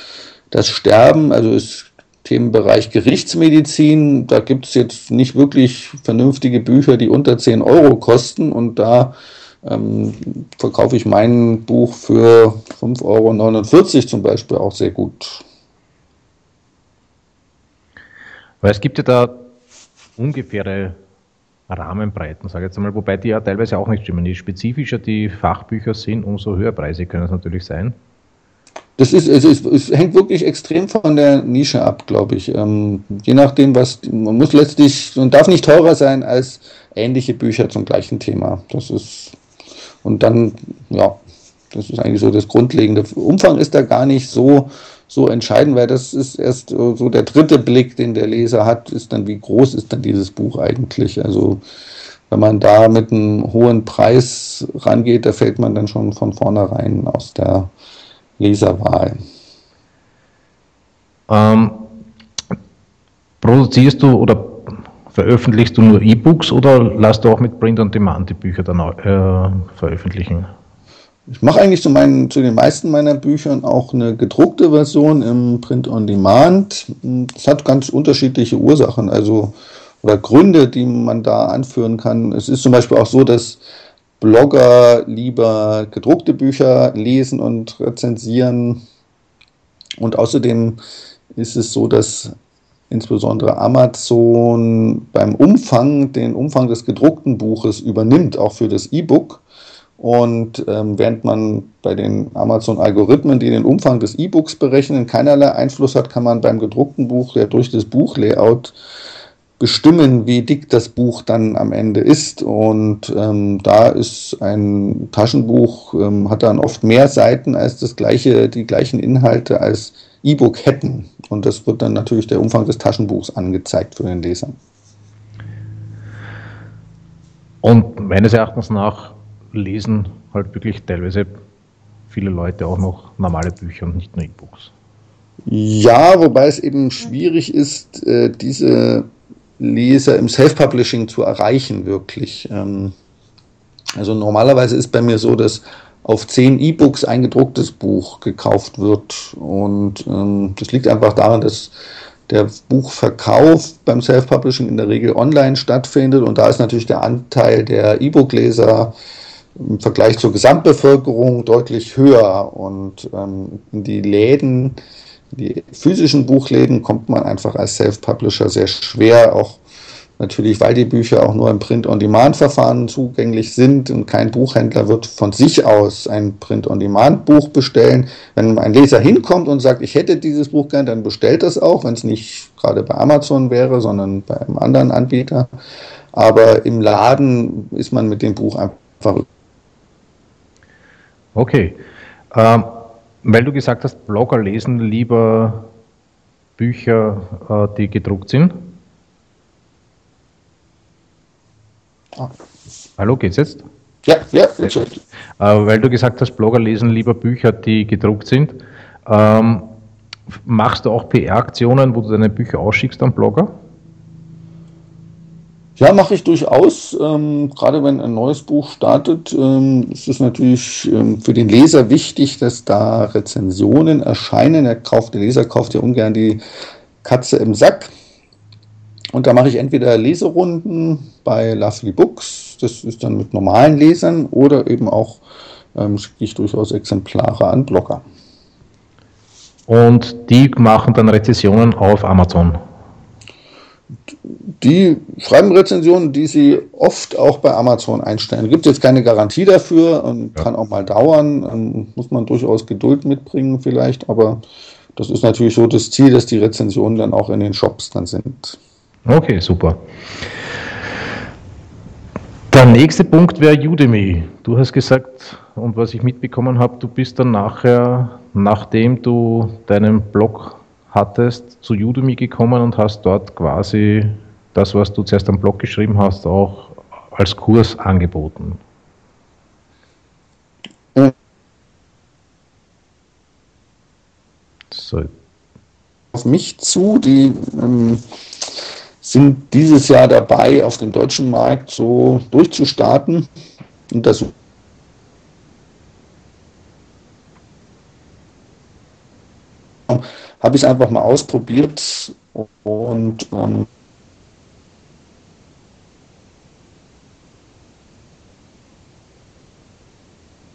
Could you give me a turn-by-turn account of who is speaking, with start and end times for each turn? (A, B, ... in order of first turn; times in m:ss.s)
0:00.5-0:15.4 A
0:18.6-0:19.5 B
0:20.2-0:21.0 B
0:21.7-0:28.0 B
0:29.0-0:39.3 A
0:40.0-0:41.2 A
0:41.7-0:51.6 A
0:52.3-0:57.7 A
0:58.4-0:59.2 A
1:01.3-1:01.9 B
1:03.4-1:10.5 B
1:11.3-1:23.6 A
1:24.2-1:28.8 A
1:30.0-1:30.8 A
1:31.3-1:32.3 A
1:32.9-1:39.4 A
1:40.0-1:48.8 A
1:49.6-2:04.6 A
2:07.6-2:11.4 B
2:12.1-2:14.7 B
2:15.4-2:19.1 A
2:19.6-2:22.9 A
2:24.0-2:31.7 A
2:32.3-2:38.9 A
2:39.6-2:44.8 A
2:45.3-2:49.6 A
2:50.2-3:05.5 A
3:06.1-3:09.2 A
3:11.3-3:11.8 B
3:12.3-3:15.7 B
3:16.6-3:18.7 B
3:23.0-3:23.6 B
3:24.0-3:25.0 A
3:25.4-3:29.7 B
3:30.4-3:33.5 B
3:35.8-3:46.4 A
3:47.0-3:47.9 A
3:49.1-3:55.2 A
3:55.7-3:58.0 A
3:59.7-4:02.6 B
4:04.3-4:14.4 A
4:15.0-4:18.6 A
4:19.0-4:19.8 B
4:22.5-4:38.6 B
4:44.7-4:45.1 B
4:46.1-4:48.0 A
4:49.0-4:53.3 A
4:53.9-4:54.3 A
4:59.9-5:03.7 A